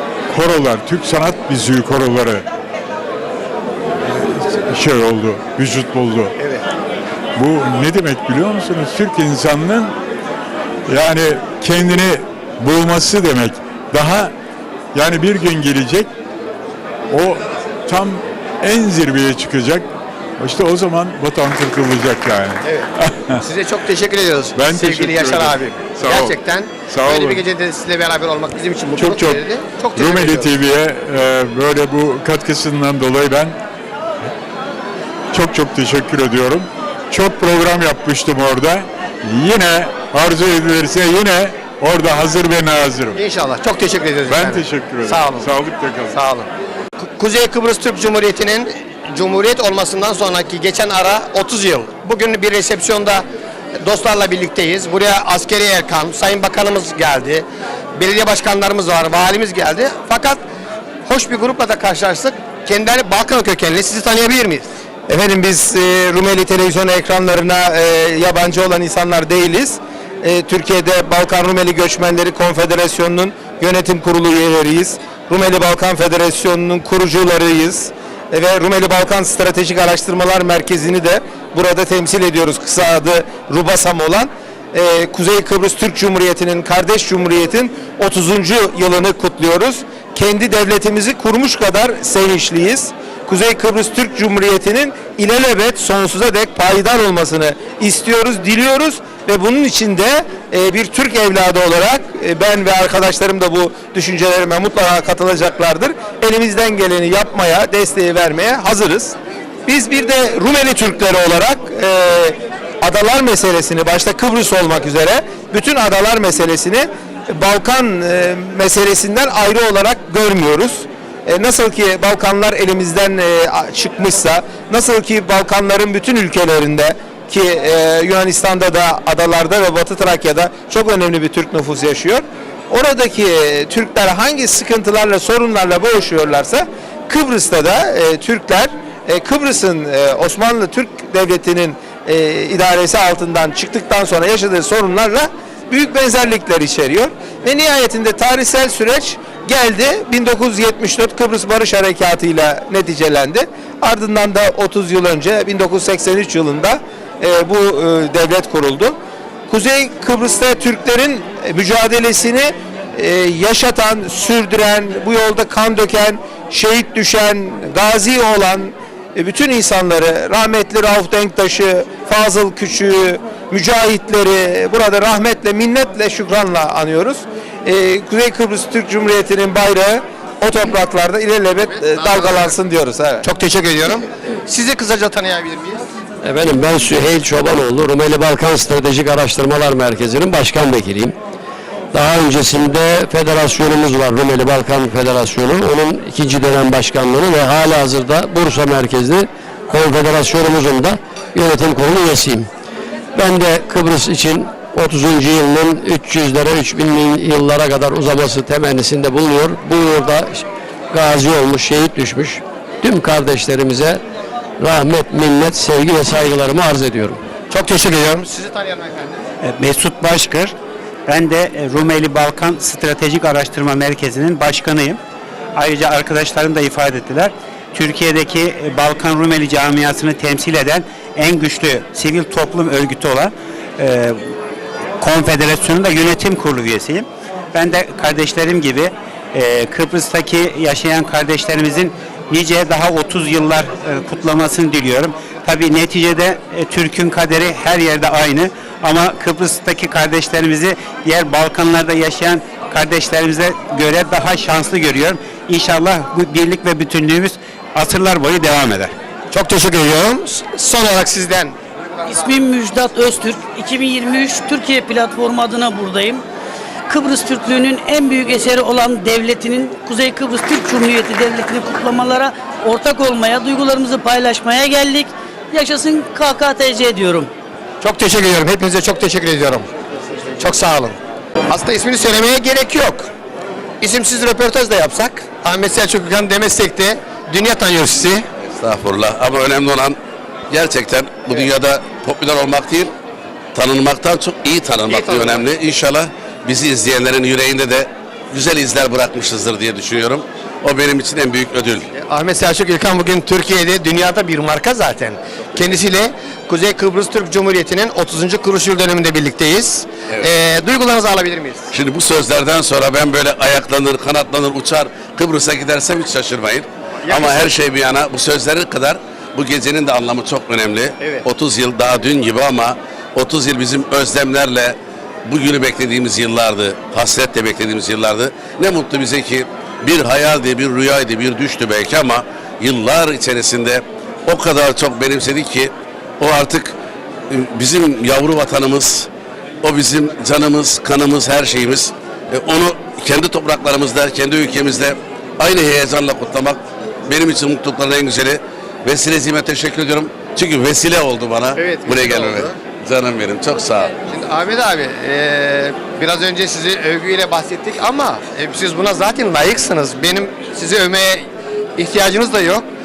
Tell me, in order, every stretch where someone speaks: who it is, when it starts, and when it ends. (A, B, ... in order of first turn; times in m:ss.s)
0:00.3-0:02.4 A
0:04.0-0:06.4 A
0:06.4-0:06.6 B
0:07.4-0:10.0 A
0:10.9-0:14.3 A
0:14.9-0:16.1 A
0:17.1-0:19.9 A
0:20.4-0:23.4 A
0:22.6-0:30.5 B
0:24.6-0:26.4 A
0:26.9-0:27.4 A
0:29.0-0:29.4 A
0:30.0-0:33.6 A
0:35.3-0:43.2 A
0:43.2-0:45.5 B
0:44.3-0:46.2 A
0:46.1-0:46.5 B
0:47.0-0:53.3 B
0:53.8-1:00.4 B
1:01.0-1:04.7 B
1:05.1-2:39.0 C
2:39.5-3:03.3 C
3:01.8-3:02.5 B
3:03.2-3:05.9 B
3:06.2-3:11.2 D
3:11.9-3:22.5 D
3:23.2-3:34.0 D
3:34.6-3:37.2 D
3:37.5-3:39.2 B
3:39.4-3:40.6 E
3:41.1-3:45.0 E
3:45.6-3:54.3 E
3:55.0-4:18.9 E
4:19.3-4:21.6 B
4:22.1-4:26.2 F
4:26.9-4:37.3 F
4:37.8-4:39.7 B
4:40.4-4:41.0 B
4:41.5-4:43.1 B
4:43.8-4:48.2 B
4:48.6-4:50.0 G
4:50.5-4:52.9 G
4:53.5-5:01.9 G
4:54.9-4:55.4 B
5:01.9-5:11.7 B
5:11.7-5:24.8 G
5:17.0-5:17.5 B
5:21.0-5:21.2 B
5:25.3-5:36.7 G
5:37.3-5:39.1 G
5:39.6-5:53.9 G
5:51.6-5:52.6 B
5:54.1-6:02.7 B